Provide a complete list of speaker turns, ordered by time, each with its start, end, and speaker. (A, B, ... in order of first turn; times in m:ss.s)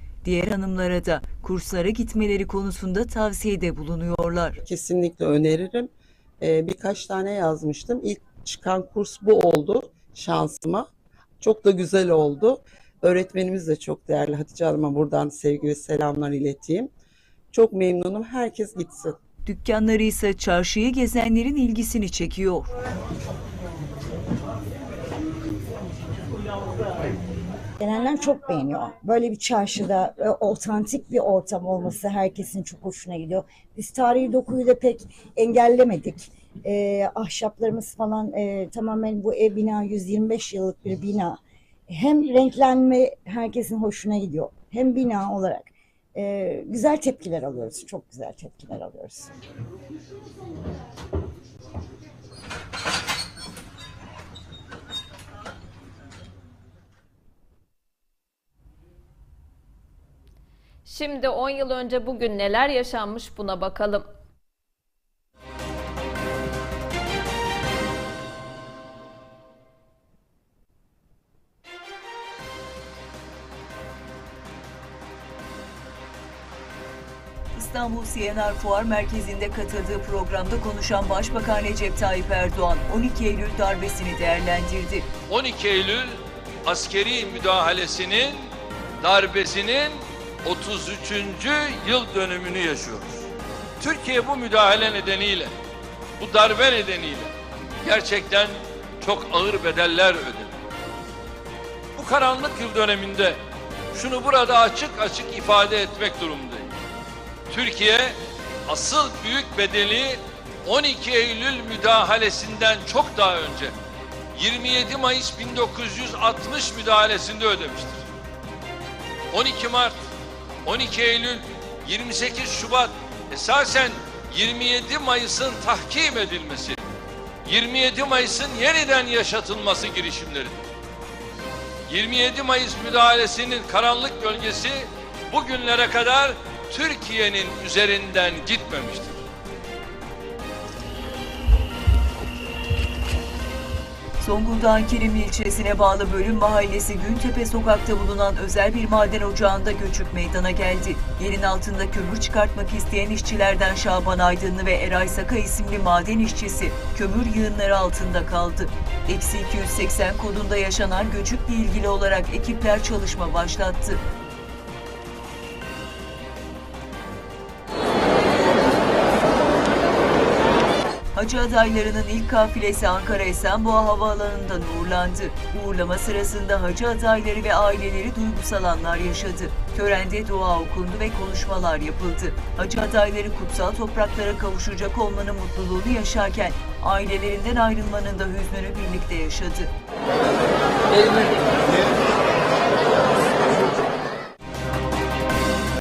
0:00.2-0:04.6 A
0:04.6-0:10.9 B
0:11.4-0:16.9 B
0:17.5-0:19.2 B
0:19.5-0:22.7 A
0:27.8-0:41.4 C
0:41.9-0:49.3 C
1:00.9-1:04.1 D
1:17.6-1:25.1 A
1:25.3-1:33.3 E
1:33.8-1:35.6 E
1:36.2-1:40.5 E
1:42.0-1:43.4 E
1:43.9-1:46.7 E
1:47.5-1:53.7 E
1:54.4-1:58.1 E
1:59.3-2:00.0 E
2:00.6-2:06.8 E
2:07.4-2:10.6 E
2:11.9-2:19.2 E
2:24.2-2:44.0 A
2:51.2-3:09.7 A